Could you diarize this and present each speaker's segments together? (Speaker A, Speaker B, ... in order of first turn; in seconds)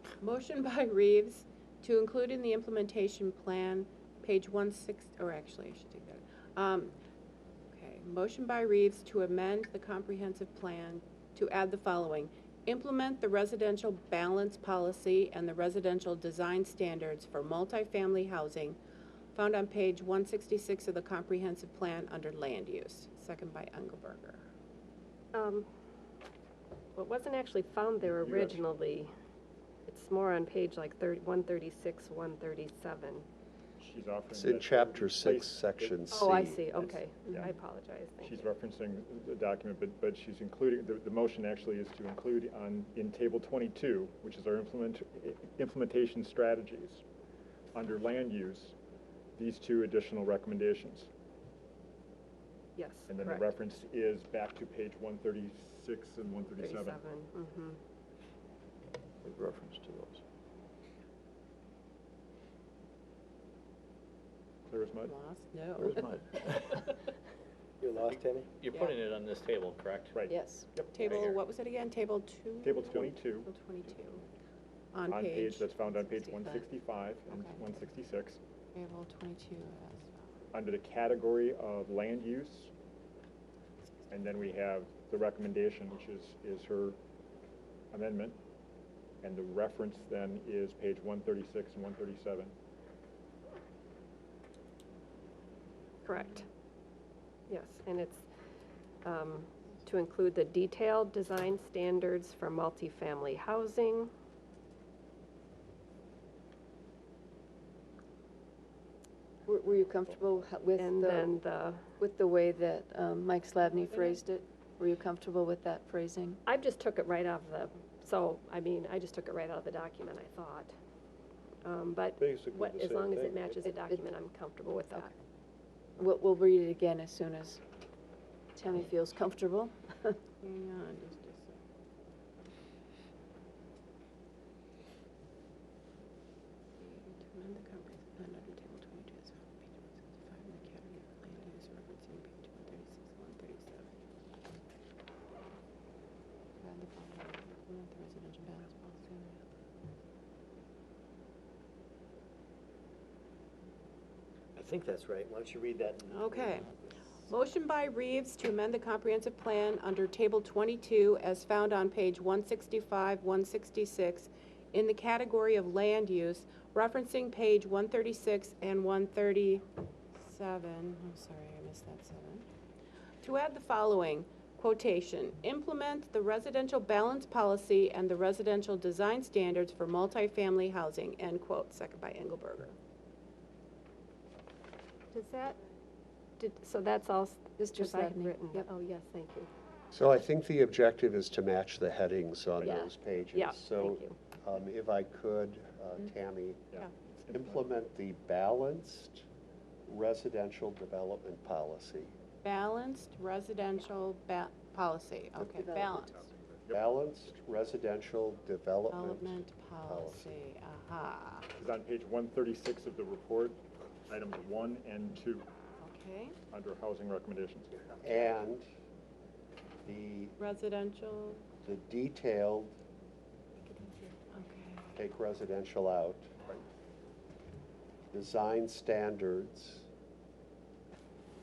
Speaker A: 0.2-7.0, 7.7-18.8, 19.3-24.5, 65.0-66.0, 68.7-69.0, 70.9-74.2, 74.9-75.8, 77.3-77.6, 78.7-80.3, 113.9-114.2, 130.4-131.6, 136.8-143.9, 146.6-149.4, 156.1-156.7, 157.3-172.5, 173.2-182.8, 202.4-206.1, 208.9-211.5, 215.8-216.3, 220.4-221.4, 223.6-225.0
Speaker B: 25.3-25.7, 26.9-29.1, 29.9-33.2, 36.1-38.5, 52.8-53.5, 56.5-57.8, 96.0-96.4, 97.5-98.2, 99.0-104.1, 110.8-111.8, 116.5-120.7, 121.6-125.1, 185.1-185.6, 186.4-189.5, 192.6-194.2
Speaker C: 28.0-28.6, 33.8-37.5, 38.2-47.0, 47.7-48.7, 49.4-51.1, 53.1-57.0, 59.4-60.1, 64.7-65.1, 70.1-71.0, 72.6-74.0, 75.1-78.4, 80.5-82.7, 84.1-87.0, 87.9-88.4, 89.2-92.5, 196.7-197.7, 206.2-206.8, 211.6-215.5, 216.5-217.7
Speaker D: 34.3-36.6, 189.9-196.6, 197.3-199.2, 199.9-202.1, 206.7-210.4, 218.0-218.7, 219.8-220.3, 221.6-222.7, 224.9-226.3, 228.1-229.8
Speaker E: 65.8-66.1, 67.8-68.5, 154.6-156.8
Speaker F: 66.0-66.8, 68.0-70.2, 71.0-71.4
Speaker G: 70.3-70.7, 75.9-76.7, 109.5-111.3, 112.0-116.4, 123.6-124.1, 126.0-127.6, 128.5-130.2, 187.6-188.7, 205.3-206.2